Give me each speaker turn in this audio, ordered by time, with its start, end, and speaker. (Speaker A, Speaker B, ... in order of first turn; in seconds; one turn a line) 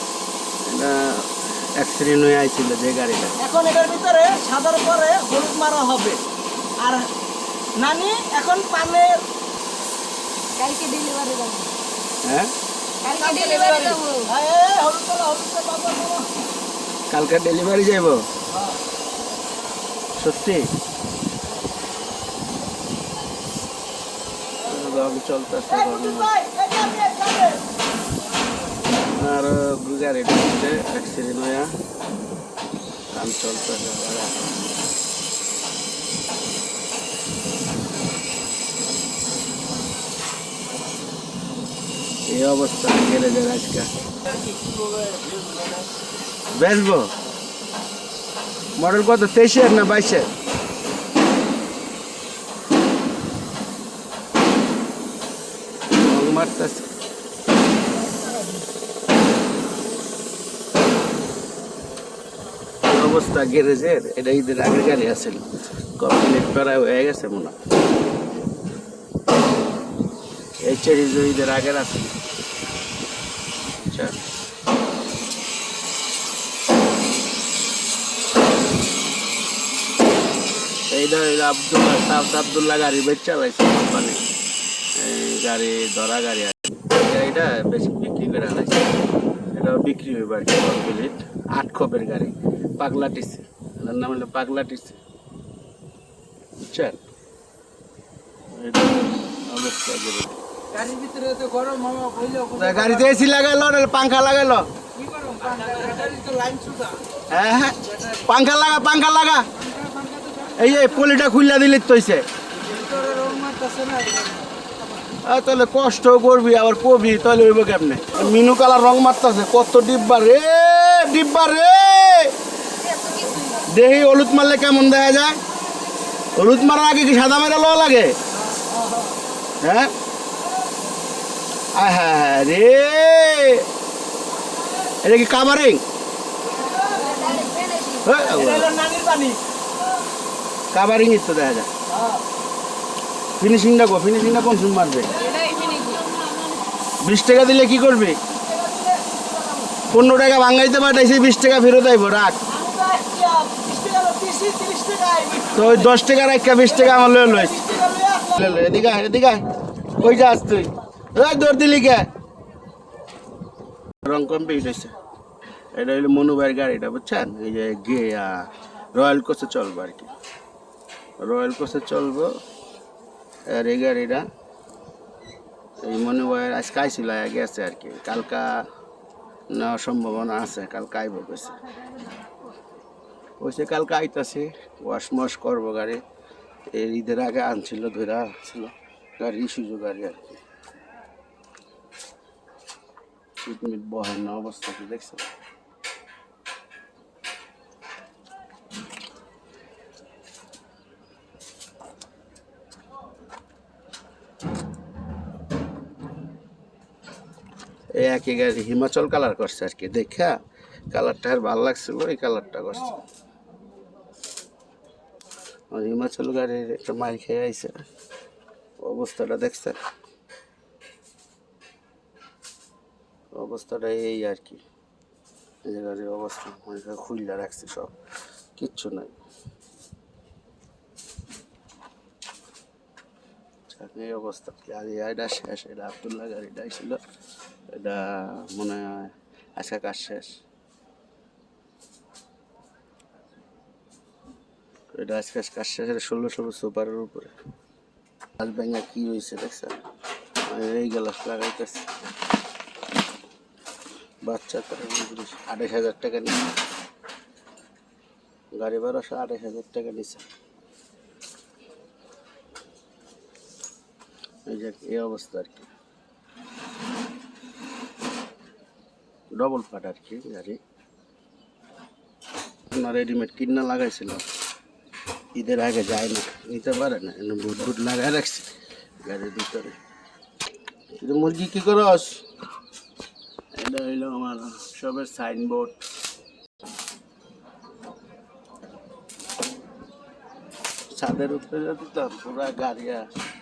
Speaker A: 0.7-3.3
Speaker B: 3.4-6.2
Speaker B: 6.8-7.1
Speaker B: 7.8-9.2
Speaker C: 10.6-11.7
Speaker A: 12.2-12.5
Speaker C: 13.0-14.3
Speaker B: 13.1-16.3
Speaker A: 17.1-18.2
Speaker A: 20.1-20.7
Speaker A: 24.6-26.3
Speaker B: 25.7-27.6
Speaker A: 29.1-31.7
Speaker A: 33.1-34.4
Speaker A: 42.3-43.9
Speaker A: 46.5-47.1
Speaker A: 48.8-50.3
Speaker A: 55.9-56.9
Speaker A: 62.8-65.5
Speaker A: 66.0-67.5
Speaker A: 70.6-72.2
Speaker A: 73.8-74.2
Speaker A: 80.9-84.2
Speaker A: 84.9-88.9
Speaker A: 89.5-95.0
Speaker A: 96.6-97.0
Speaker A: 98.5-100.4
Speaker B: 100.7-103.1
Speaker A: 102.5-104.7
Speaker B: 105.0-107.0
Speaker A: 107.3-109.5
Speaker B: 109.8-110.6
Speaker A: 110.5-112.2
Speaker B: 112.6-114.5
Speaker A: 115.2-122.3
Speaker C: 122.8-123.6
Speaker A: 123.6-125.4
Speaker A: 126.3-128.1
Speaker B: 128.6-129.1
Speaker A: 129.6-129.9
Speaker A: 131.7-133.7
Speaker A: 135.0-135.8
Speaker C: 136.8-138.1
Speaker A: 138.0-138.8
Speaker B: 138.3-139.4
Speaker A: 140.7-141.7
Speaker B: 141.9-142.2
Speaker A: 143.4-145.1
Speaker C: 145.1-146.5
Speaker B: 145.2-146.2
Speaker A: 147.0-148.2
Speaker B: 148.3-149.8
Speaker A: 149.9-152.4
Speaker B: 152.5-155.9
Speaker A: 155.5-157.7
Speaker B: 156.7-158.5
Speaker A: 158.3-162.1
Speaker A: 164.0-164.9
Speaker A: 165.7-170.1
Speaker A: 171.2-172.3
Speaker A: 173.5-174.3
Speaker A: 175.8-178.7
Speaker A: 179.5-181.6
Speaker A: 183.4-186.0
Speaker A: 186.7-190.4
Speaker A: 193.4-195.2
Speaker A: 207.9-210.4
Speaker A: 210.9-213.0
Speaker A: 215.7-217.8
Speaker A: 218.8-219.8
Speaker A: 223.3-224.6
Speaker A: 225.6-227.9
Speaker A: 228.6-229.1
Speaker A: 233.7-237.0
Speaker A: 237.7-240.4
Speaker A: 244.9-247.3
Speaker A: 248.4-249.8
Speaker A: 250.4-251.9
Speaker A: 254.2-256.4
Speaker A: 258.5-260.3
Speaker A: 264.5-265.7
Speaker A: 269.3-270.6
Speaker A: 272.7-274.2
Speaker A: 275.4-278.5
Speaker A: 279.0-279.8
Speaker A: 281.0-282.2
Speaker A: 283.5-285.9
Speaker A: 290.9-293.1